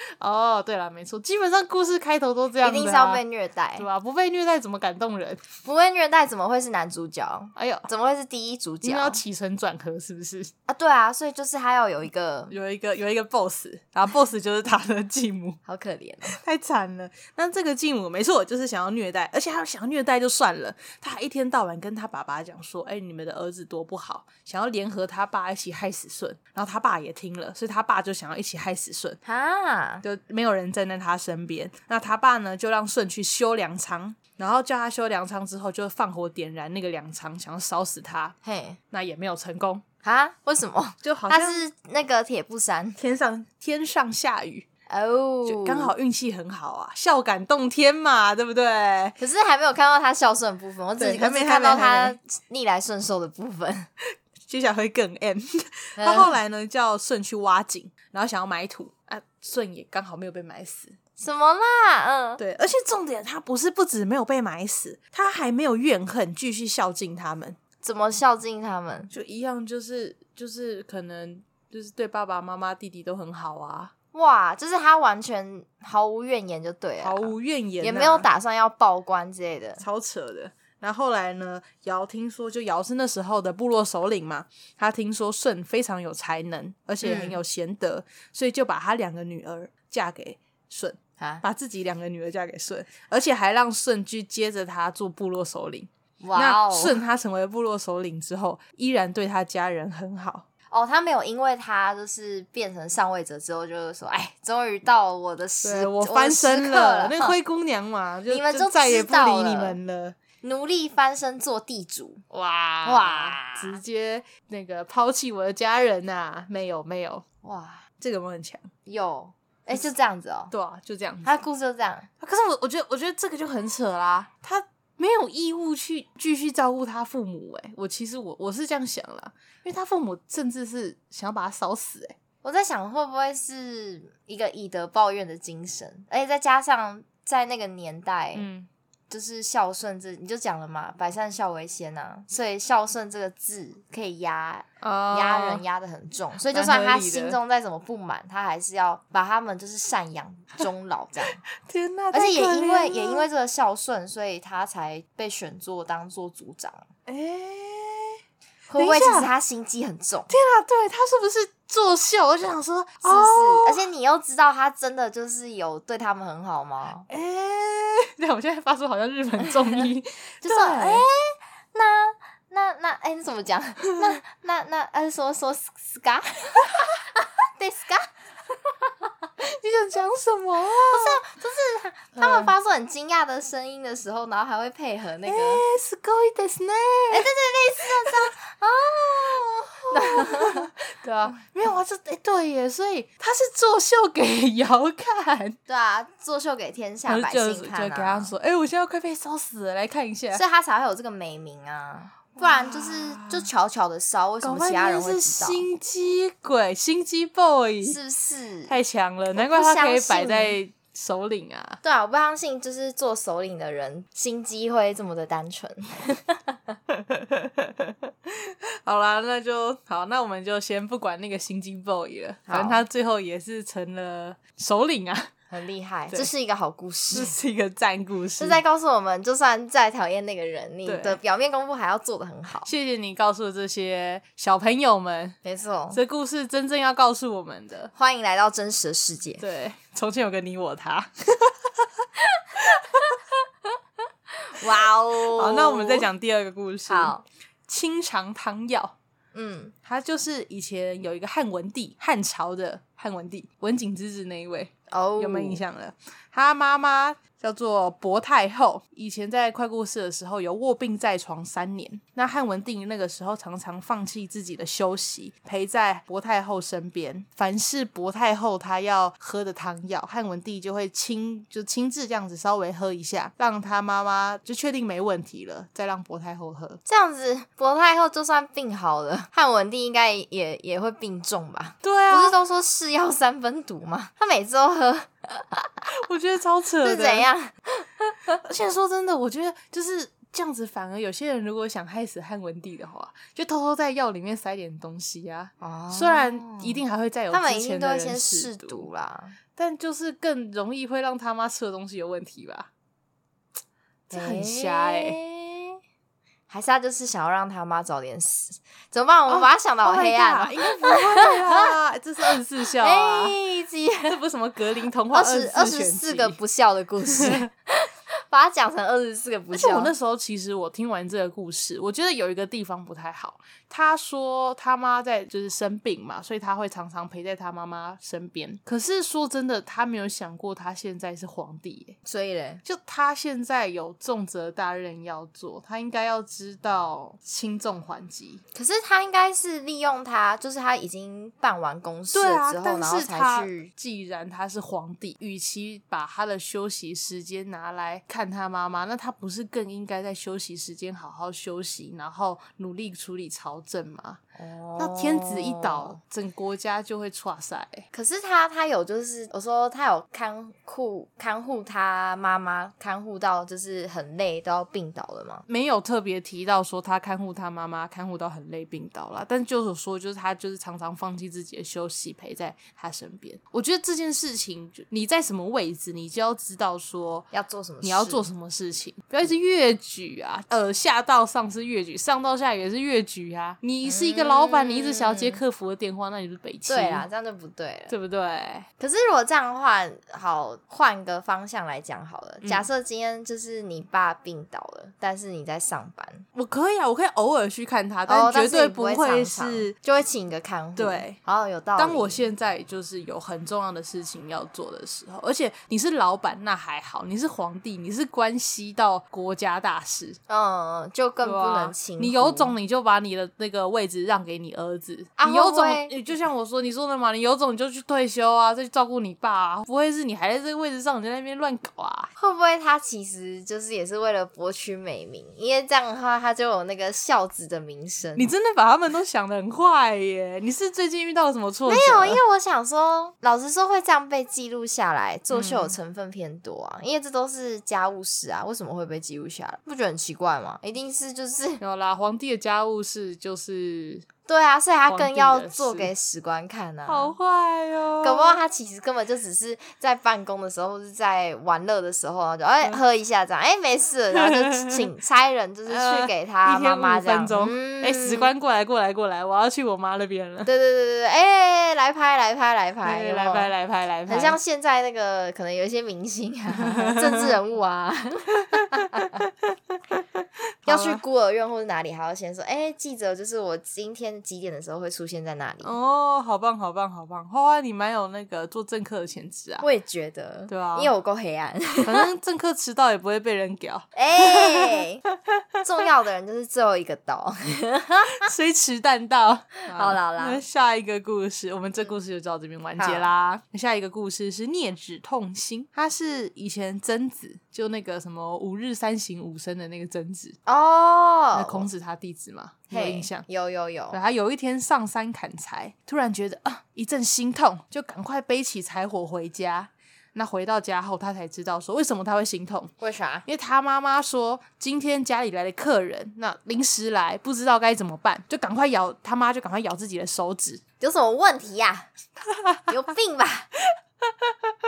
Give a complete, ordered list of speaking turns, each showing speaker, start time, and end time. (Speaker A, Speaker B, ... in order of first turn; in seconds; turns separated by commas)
Speaker A: 0.2-3.2, Speaker B: 2.6-3.9, Speaker A: 3.8-5.4, Speaker B: 5.6-9.2, Speaker A: 7.5-7.9, Speaker A: 8.8-10.5, Speaker B: 10.7-12.5, Speaker A: 12.5-15.6, Speaker B: 15.7-16.4, Speaker A: 16.3-29.2, Speaker B: 29.2-30.0, Speaker A: 30.0-38.4, Speaker B: 38.4-38.8, Speaker A: 38.9-39.8, Speaker B: 40.0-43.0, Speaker A: 41.0-41.6, Speaker A: 43.0-44.6, Speaker B: 44.9-45.9, Speaker A: 45.4-49.1, Speaker B: 49.2-53.9, Speaker A: 51.0-52.2, Speaker A: 54.4-61.0, Speaker B: 56.0-56.3, Speaker B: 61.2-62.4, Speaker A: 62.4-67.6, Speaker B: 67.8-69.1, Speaker A: 69.1-73.9, Speaker B: 74.1-79.8, Speaker A: 77.0-78.3, Speaker A: 79.8-100.5, Speaker B: 87.0-87.4, Speaker B: 91.2-91.4, Speaker B: 96.2-97.0, Speaker B: 100.7-107.3, Speaker A: 105.6-110.2, Speaker B: 108.3-109.8, Speaker B: 110.4-112.2, Speaker A: 112.3-117.2, Speaker B: 112.8-113.8, Speaker B: 117.4-117.8, Speaker A: 118.0-118.7, Speaker B: 118.8-120.5, Speaker A: 120.5-121.3, Speaker B: 121.2-122.1, Speaker A: 122.2-132.2, Speaker B: 132.4-138.5, Speaker A: 138.3-138.7, Speaker B: 139.1-151.4, Speaker A: 144.8-145.6, Speaker A: 146.5-147.4, Speaker A: 151.6-153.2, Speaker B: 152.1-156.9, Speaker A: 157.1-158.2, Speaker B: 158.7-160.3, Speaker A: 158.7-159.3, Speaker A: 160.3-163.8, Speaker B: 163.0-167.1, Speaker A: 167.1-171.0, Speaker B: 170.4-176.8, Speaker B: 177.6-178.1, Speaker A: 179.4-181.2, Speaker B: 180.9-185.6, Speaker A: 182.2-182.5, Speaker A: 185.2-187.3, Speaker B: 187.1-190.7, Speaker A: 187.8-188.3, Speaker A: 189.7-195.6, Speaker B: 195.7-198.3, Speaker A: 197.1-200.4, Speaker B: 200.3-205.7, Speaker A: 202.4-203.5, Speaker A: 204.4-208.0, Speaker B: 207.8-208.8, Speaker A: 208.7-211.8, Speaker B: 209.3-210.6, Speaker B: 211.8-216.6, Speaker A: 216.9-225.3, Speaker B: 222.5-222.8, Speaker B: 225.5-227.3, Speaker A: 227.1-228.6, Speaker B: 228.4-232.7, Speaker A: 230.8-231.2, Speaker A: 232.6-235.4, Speaker B: 235.4-236.0, Speaker A: 235.9-237.9, Speaker B: 237.9-239.4, Speaker A: 239.4-242.0, Speaker A: 242.6-243.0, Speaker B: 244.5-246.1, Speaker A: 245.3-247.1, Speaker B: 246.9-247.2, Speaker A: 247.7-248.9, Speaker B: 249.3-249.7, Speaker A: 249.8-276.8, Speaker B: 254.9-255.6, Speaker B: 276.8-285.8, Speaker A: 281.8-282.4, Speaker A: 285.9-287.3, Speaker B: 286.8-288.4, Speaker A: 288.4-298.9, Speaker B: 295.6-299.4, Speaker A: 299.6-302.7, Speaker A: 304.1-305.2, Speaker B: 304.1-305.8, Speaker B: 306.5-311.7, Speaker A: 309.3-313.4, Speaker B: 312.8-314.1, Speaker A: 314.1-316.4, Speaker B: 315.1-319.9, Speaker A: 317.1-317.5, Speaker A: 319.5-332.0, Speaker B: 332.0-332.6, Speaker A: 332.6-338.4, Speaker B: 338.5-343.7, Speaker A: 342.1-354.2, Speaker B: 354.4-356.0, Speaker A: 354.8-357.9, Speaker B: 357.9-365.4, Speaker A: 365.5-377.3, Speaker B: 377.3-378.3, Speaker A: 377.8-387.1, Speaker B: 383.8-385.4, Speaker B: 386.7-387.9, Speaker A: 387.9-388.7, Speaker B: 388.8-396.2, Speaker A: 396.3-399.7, Speaker B: 398.1-402.2, Speaker A: 400.8-401.2, Speaker A: 401.8-410.2, Speaker B: 410.3-412.5, Speaker A: 411.2-422.1, Speaker B: 415.2-415.9, Speaker B: 422.2-428.3, Speaker A: 428.1-432.2, Speaker B: 431.7-441.6, Speaker A: 435.3-435.8, Speaker A: 441.6-444.1, Speaker B: 444.3-447.1, Speaker A: 444.9-445.9, Speaker A: 446.9-448.4, Speaker B: 448.0-458.3, Speaker A: 454.1-454.9, Speaker A: 455.7-460.5, Speaker B: 460.4-463.5, Speaker A: 462.8-464.4, Speaker B: 464.1-469.2, Speaker A: 466.6-467.4, Speaker A: 468.5-469.5, Speaker A: 470.6-471.0, Speaker B: 470.6-475.7, Speaker A: 475.6-479.6, Speaker B: 479.6-482.1, Speaker A: 480.5-480.9, Speaker A: 481.8-485.4, Speaker B: 483.9-485.0, Speaker B: 485.6-488.3, Speaker A: 488.2-500.4, Speaker B: 489.7-490.4, Speaker B: 492.8-493.1, Speaker B: 500.4-501.7, Speaker A: 501.3-503.2, Speaker B: 502.7-504.0, Speaker A: 503.9-512.7, Speaker B: 512.8-513.2, Speaker A: 513.3-520.6, Speaker B: 520.8-521.9, Speaker A: 522.2-522.8, Speaker B: 522.7-523.5, Speaker A: 524.2-524.5